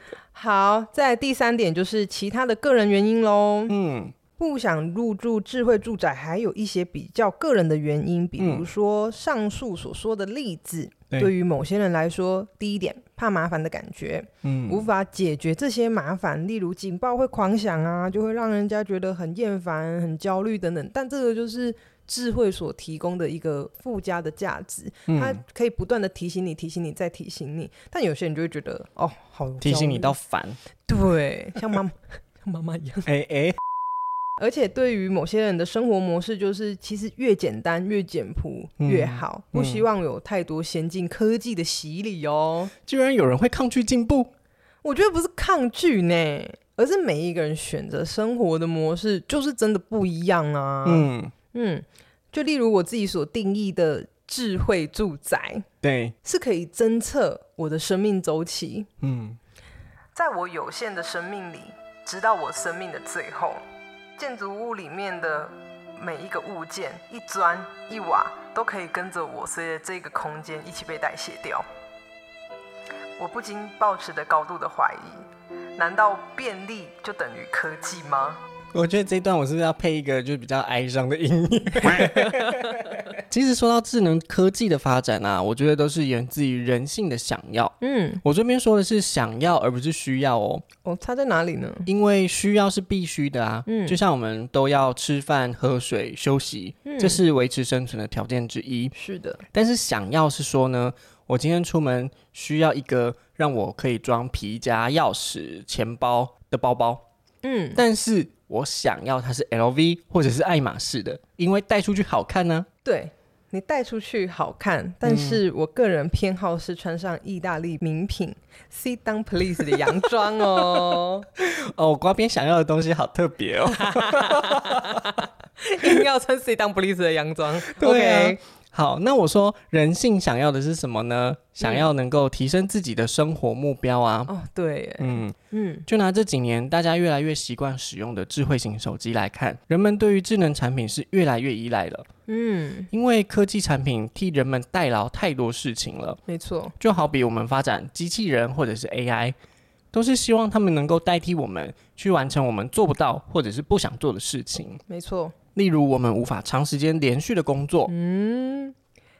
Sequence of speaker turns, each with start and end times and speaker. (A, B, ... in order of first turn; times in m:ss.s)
0:00.3-0:03.7 A
0:03.7-0:04.1 B
0:04.4-0:30.1 A
0:08.4-0:08.6 B
0:14.4-0:14.8 B
0:25.1-0:25.4 B
0:29.6-0:30.6 B
0:30.8-0:33.1 A
0:33.0-0:33.6 B
0:34.4-0:42.7 A
0:38.8-0:39.8 B
0:42.8-0:44.3 B
0:44.8-0:55.6 A
0:50.8-0:51.3 B
0:55.8-0:56.1 B
0:56.2-0:58.9 A
0:59.0-0:59.4 B
1:00.1-1:03.6 A
1:04.2-1:11.6 A
1:13.2-1:18.4 A
1:18.7-1:30.6 B
1:21.9-1:22.7 A
1:27.8-1:28.2 A
1:30.8-1:31.9 A
1:31.9-1:38.9 B
1:33.6-1:34.0 A
1:36.8-1:37.2 A
1:38.9-1:39.4 A
1:39.5-1:47.0 B
1:47.4-1:47.8 A
1:47.7-1:52.7 B
1:52.8-2:01.3 A
1:55.0-1:55.4 B
2:01.4-2:05.1 B
2:03.7-2:08.4 A
2:07.7-2:14.3 B
2:11.6-2:11.9 A
2:14.3-2:15.8 A
2:15.0-2:15.3 B
2:15.9-2:22.1 B
2:22.3-2:22.9 A
2:22.9-2:26.2 B
2:26.3-2:26.8 A
2:26.8-2:29.3 B
2:29.9-2:34.8 B
2:34.9-2:35.3 A
2:35.6-2:37.9 B
2:37.9-2:38.7 A